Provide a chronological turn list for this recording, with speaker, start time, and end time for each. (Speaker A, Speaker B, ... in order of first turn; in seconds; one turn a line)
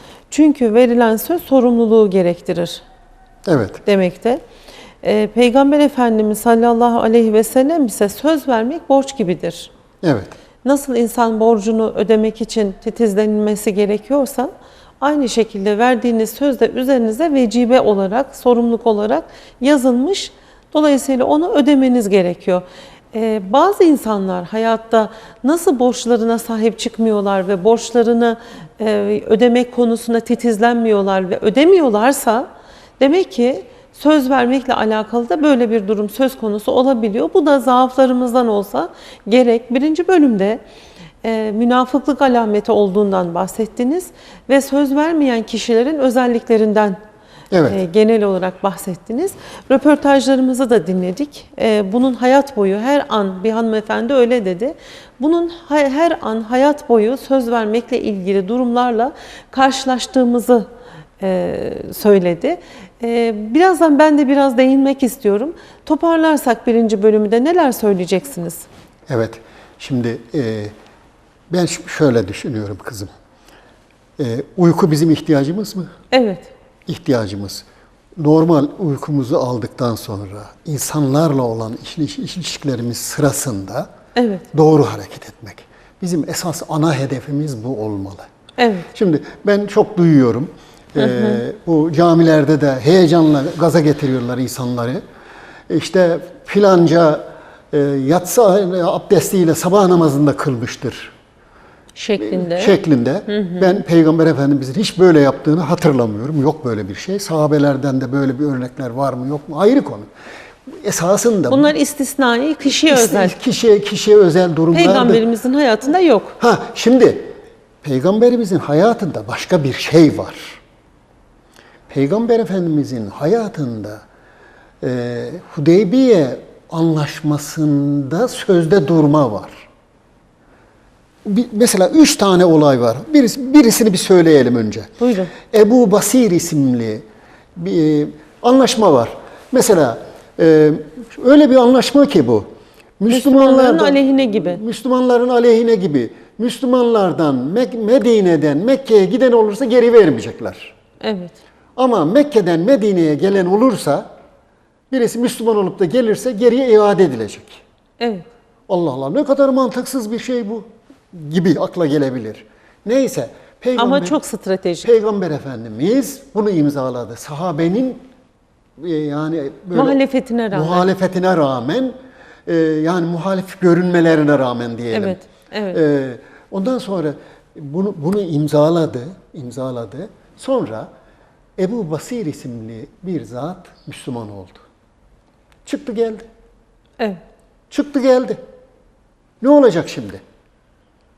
Speaker A: 0.3-2.8
Speaker B: 3.5-3.8
Speaker A: 3.9-4.4
Speaker A: 5.0-9.7
Speaker B: 10.0-10.3
Speaker A: 10.6-32.5
Speaker A: 33.0-40.6
Speaker A: 41.2-47.0
Speaker B: 47.5-47.8
Speaker A: 47.7-60.7
Speaker A: 61.2-68.6
Speaker B: 69.1-70.7
Speaker B: 71.5-73.1
Speaker B: 74.2-75.9
Speaker A: 76.1-76.5
Speaker B: 76.9-77.6
Speaker B: 78.2-83.9
Speaker A: 84.2-84.4
Speaker B: 84.5-88.3
Speaker A: 88.6-88.9
Speaker B: 88.9-95.0
Speaker A: 91.0-91.4
Speaker B: 95.7-101.1
Speaker A: 102.0-102.8
Speaker B: 102.2-110.1
Speaker A: 103.3-103.8
Speaker B: 110.7-111.7
Speaker A: 111.5-113.3
Speaker B: 112.9-115.2
Speaker A: 114.7-116.4
Speaker B: 116.4-120.6
Speaker B: 121.9-124.0
Speaker B: 124.8-129.7
Speaker B: 131.2-137.0
Speaker A: 135.0-135.3
Speaker B: 137.6-142.5
Speaker B: 143.0-150.7
Speaker A: 143.1-144.6
Speaker A: 151.0-151.4
Speaker B: 151.8-154.1
Speaker B: 154.9-157.6
Speaker A: 158.0-158.3
Speaker B: 158.7-164.2
Speaker A: 163.8-164.9
Speaker B: 164.8-168.0
Speaker B: 168.8-170.0
Speaker A: 169.7-170.9
Speaker B: 170.5-171.9
Speaker B: 172.4-175.2
Speaker A: 174.9-175.8
Speaker B: 175.7-180.9
Speaker B: 181.6-184.6
Speaker B: 185.6-186.3
Speaker B: 187.7-188.4
Speaker B: 189.4-190.2